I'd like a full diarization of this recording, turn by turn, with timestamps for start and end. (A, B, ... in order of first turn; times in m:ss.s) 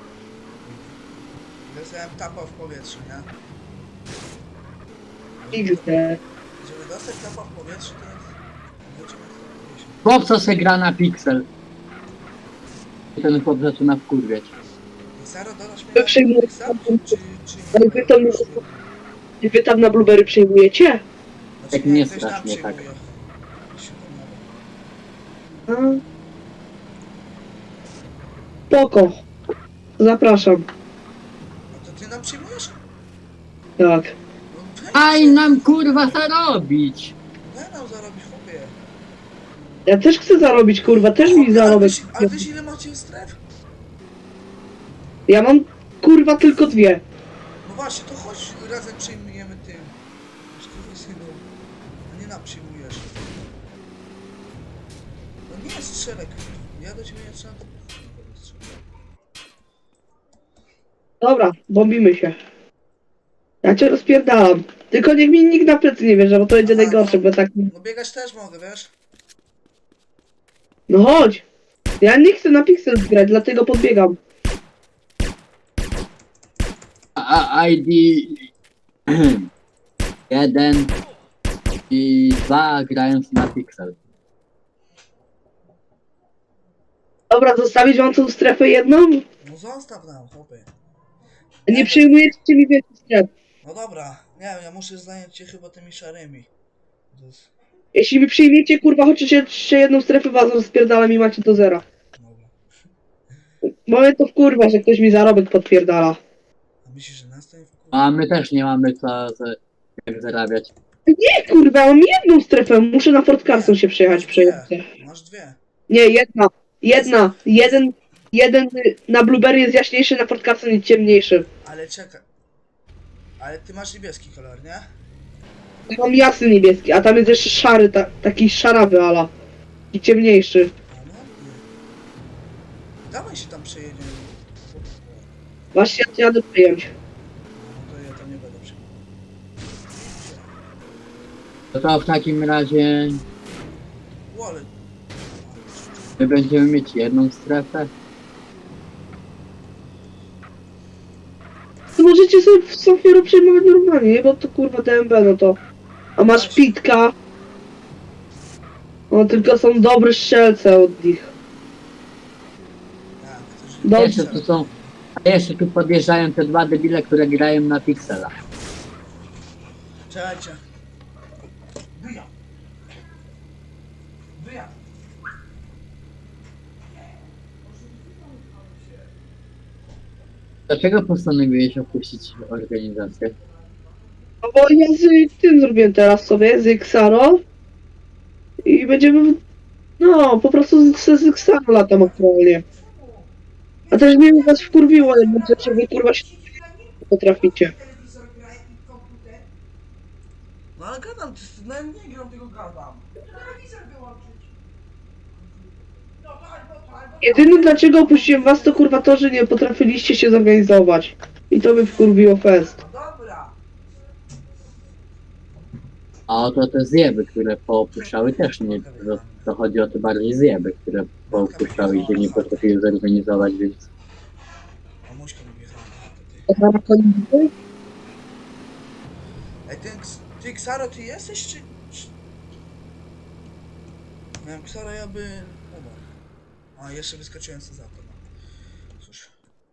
0:00.6-0:01.0 A
0:01.7-0:03.3 A
0:05.4-0:06.0 A
0:05.5-0:06.2 B
0:06.6-0:10.0 A
0:10.0-0:11.5 C
0:13.2-0:14.5 C
0:15.2-0:19.0 A
0:16.0-0:17.2 B
0:17.7-0:18.6 B
0:19.4-0:21.0 B
0:21.6-0:23.0 A
0:21.7-0:22.8 C
0:23.7-0:24.4 A
0:25.7-0:26.0 B
0:28.7-0:29.2 B
0:30.0-0:30.7 B
0:31.7-0:32.8 A
0:33.8-0:34.1 B
0:34.5-0:36.2 A
0:34.9-0:37.1 C
0:37.4-0:38.8 A
0:39.9-0:42.4 B
0:41.1-0:43.4 A
0:45.3-0:47.0 B
0:47.6-0:50.0 A
0:50.5-0:51.5 A
0:52.1-0:53.4 A
0:55.5-0:58.8 A
1:01.2-1:02.4 B
1:03.6-1:07.7 B
1:06.6-1:08.9 A
1:10.9-1:11.4 B
1:12.0-1:14.2 B
1:17.2-1:18.5 C
1:19.1-1:19.5 C
1:20.3-1:20.9 C
1:21.9-1:24.0 C
1:27.3-1:29.2 B
1:29.4-1:30.7 A
1:31.7-1:32.3 A
1:31.7-1:33.3 B
1:33.6-1:36.5 A
1:37.1-1:37.5 A
1:38.0-1:41.8 B
1:42.2-1:42.5 A
1:43.7-1:46.2 B
1:46.8-1:48.1 A
1:47.9-1:50.7 C
1:51.1-1:54.8 B
1:53.5-1:55.6 A
1:55.9-2:01.5 B
1:56.9-1:57.8 A
2:01.6-2:02.3 A
2:03.4-2:04.9 A
2:05.9-2:09.3 B
2:09.9-2:10.7 B
2:10.9-2:11.6 A
2:13.0-2:15.4 A
2:15.7-2:16.9 B
2:17.6-2:19.1 A
2:19.9-2:20.6 A
2:21.7-2:23.2 C
2:24.3-2:26.2 A
2:26.2-2:27.9 C
2:32.0-2:35.6 B
2:36.2-2:37.1 B
2:36.3-2:36.8 A
2:39.1-2:41.3 B
2:43.2-2:45.0 A
2:43.8-2:44.2 B
2:44.0-2:44.7 C
2:45.2-2:48.3 C
2:50.1-2:50.6 A
2:51.9-2:52.3 A
2:54.4-2:54.8 A
2:57.8-2:58.9 A
3:00.7-3:03.4 C
3:04.4-3:07.4 B
3:08.6-3:09.4 B
3:10.0-3:12.6 B
3:12.0-3:13.3 A
3:13.8-3:16.8 A
3:13.9-3:16.2 B
3:17.1-3:17.7 B
3:17.6-3:19.5 A
3:20.8-3:24.5 A
3:26.1-3:29.0 A
3:27.2-3:32.8 B
3:32.8-3:33.6 A
3:36.3-3:43.9 C
3:38.0-3:39.5 A
3:41.3-3:42.7 A
3:45.0-3:46.5 A
3:46.5-3:47.5 B
3:49.7-3:52.1 A
3:54.4-3:56.0 A
3:56.8-3:58.2 A
3:59.0-3:59.3 A